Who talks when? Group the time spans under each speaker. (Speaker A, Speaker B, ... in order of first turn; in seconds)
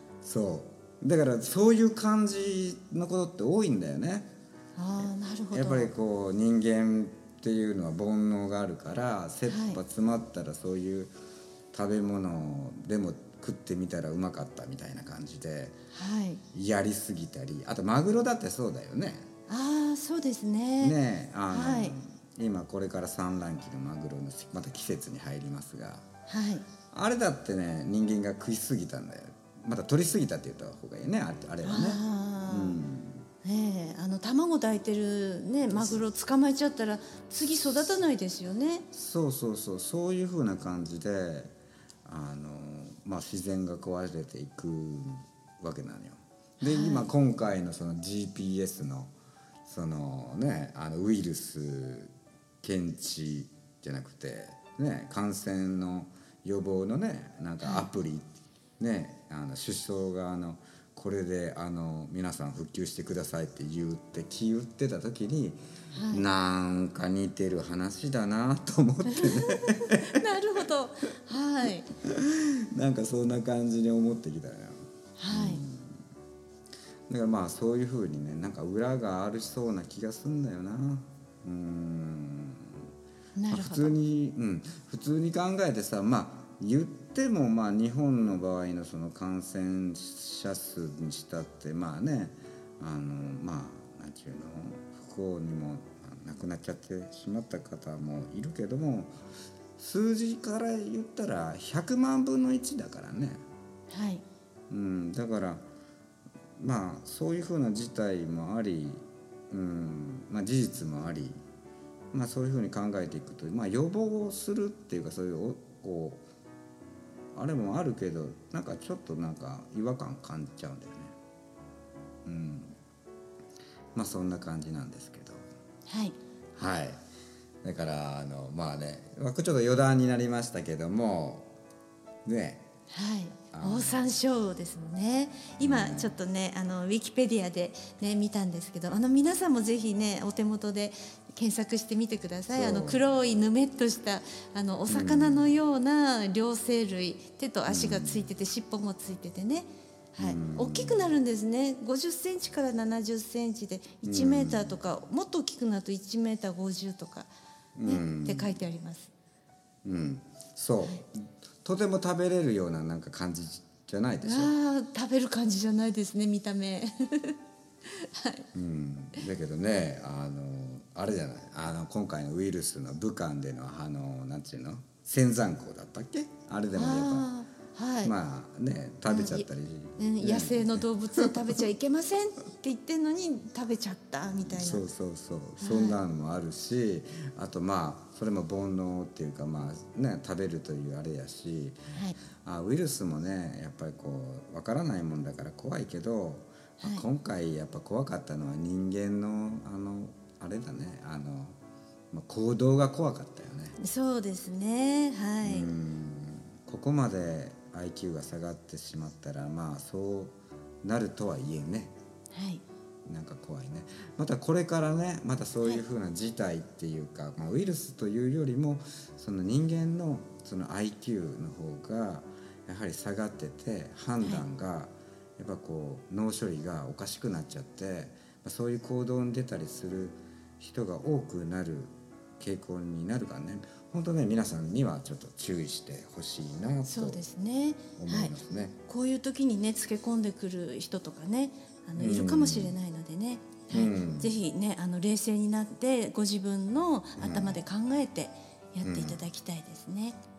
Speaker A: 0.2-4.3, 5.5-11.1, 11.7-15.8, 16.5-19.3, 20.8-26.1, 26.9-33.3, 35.7-36.0, 38.9-41.5, 42.0-49.1, 49.6-58.3, 58.8-70.2, 72.0-76.0, 77.1-82.9, 83.5-99.1, 99.8-103.4, 104.7-105.7, 106.6-111.4, 112.1-116.2, 117.3-121.2, 122.3-122.8, 124.0-125.5, 126.6-127.0, 127.6-131.5, 132.2-132.7, 133.5-134.0, 135.6-136.2, 142.5-143.0, 144.9-145.5, 147.7-148.3, 150.2-151.1, 154.0-154.8, 157.8-158.6, 159.8-164.5, 168.5-177.3, 178.0-181.4, 184.4-191.8, 192.4-201.6, 202.1-203.8, 205.4-211.9, 213.1-237.2, 238.0-238.8, 242.0-242.8, 243.7-244.4, 247.2-247.6, 248.8-249.2
Speaker B: 4.8-5.9, 9.5-9.8, 15.9-16.4, 19.5-21.0, 21.5-21.9, 26.3-26.7, 31.6-32.8, 33.4-38.9, 46.6-47.1, 57.6-57.9, 65.9-66.3, 69.1-71.9, 75.2-75.6, 83.3-83.9, 103.9-104.2, 125.9-126.2, 132.9-157.3, 157.9-159.1, 164.2-168.4, 176.7-178.1, 179.1-179.5, 180.0-184.9, 185.6-186.0, 191.9-192.2, 196.8-197.1, 203.8-205.7, 212.3-212.6, 236.9-238.3, 238.9-250.2